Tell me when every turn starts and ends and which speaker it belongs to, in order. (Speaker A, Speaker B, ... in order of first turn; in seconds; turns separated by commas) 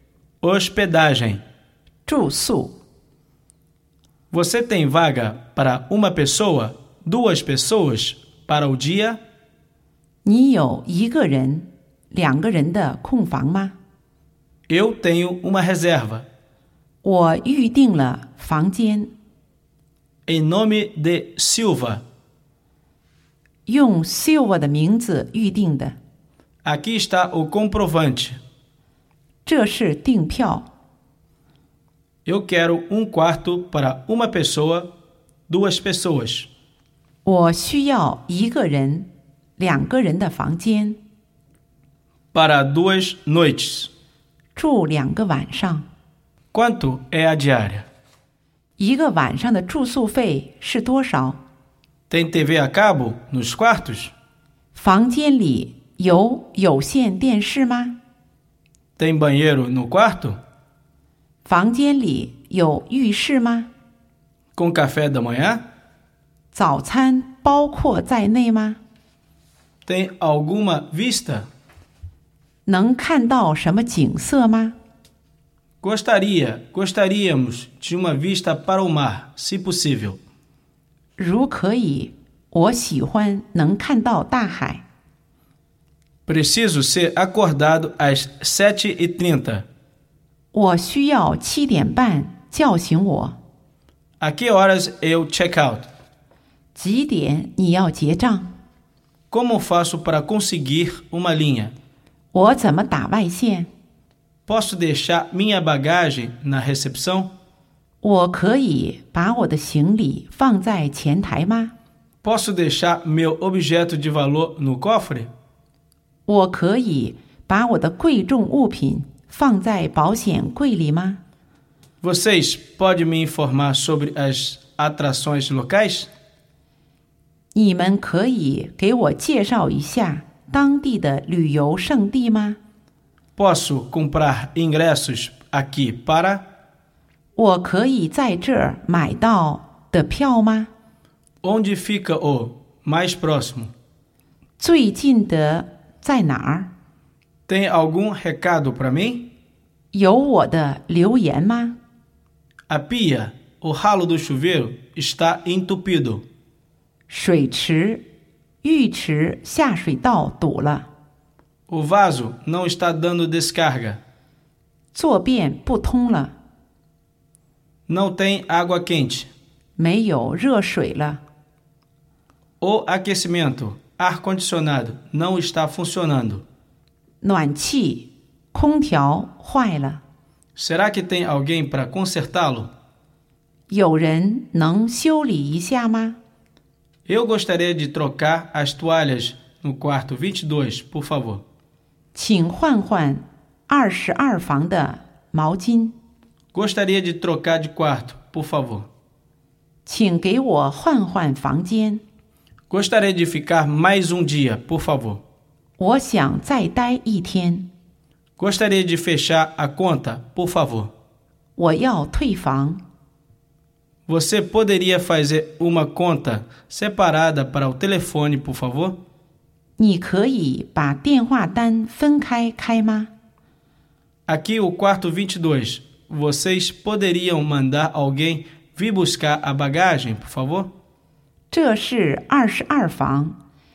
Speaker A: 0.4-1.4, Speaker B: 2.0-2.7, Speaker A: 4.3-9.2, Speaker B: 10.2-13.8, Speaker A: 14.7-16.3, Speaker B: 17.0-19.1, Speaker A: 20.3-22.0, Speaker B: 23.6-25.9, Speaker A: 26.6-28.4, Speaker B: 29.4-30.6, Speaker A: 32.2-34.9, Speaker A: 35.5-36.5, Speaker B: 37.2-41.0, Speaker A: 42.3-43.9, Speaker B: 44.5-45.9, Speaker A: 46.5-47.9, Speaker B: 48.8-51.4, Speaker A: 52.1-54.1, Speaker B: 54.7-58.0, Speaker A: 59.0-60.4, Speaker B: 61.5-63.7, Speaker A: 64.5-65.6, Speaker B: 66.5-68.8, Speaker A: 69.8-71.5, Speaker B: 72.7-74.8, Speaker A: 75.8-80.2, Speaker B: 81.2-84.8, Speaker A: 86.3-89.7, Speaker B: 90.5-93.3, Speaker A: 94.2-95.9, Speaker B: 96.7-98.5, Speaker A: 99.3-101.7, Speaker B: 102.3-103.7, Speaker A: 104.5-107.3, Speaker B: 108.0-111.7, Speaker A: 112.2-115.3, Speaker B: 116.3-121.2, Speaker A: 122.0-126.1, Speaker B: 127.5-132.6, Speaker A: 133.3-136.4, Speaker B: 137.3-140.7, Speaker A: 141.4-143.7, Speaker B: 144.6-146.7, Speaker A: 147.5-149.2, Speaker B: 149.9-151.8, Speaker A: 152.7-156.2, Speaker B: 157.1-158.0, Speaker B: 158.6-160.9, Speaker A: 161.7-164.0, Speaker B: 164.9-166.3, Speaker A: 167.9-169.3, Speaker B: 169.8-171.2, Speaker A: 172.6-176.4, Speaker B: 177.2-180.0, Speaker A: 180.6-182.7, Speaker B: 183.7-186.2, Speaker A: 187.1-191.4, Speaker B: 192.1-195.9, Speaker A: 196.5-198.9, Speaker B: 199.8-202.0, Speaker A: 202.7-205.2, Speaker B: 205.8-207.7, Speaker A: 208.4-210.9, Speaker B: 211.6-212.8, Speaker A: 214.1-219.0, Speaker B: 219.8-223.1, Speaker A: 224.3-230.7, Speaker B: 231.5-233.3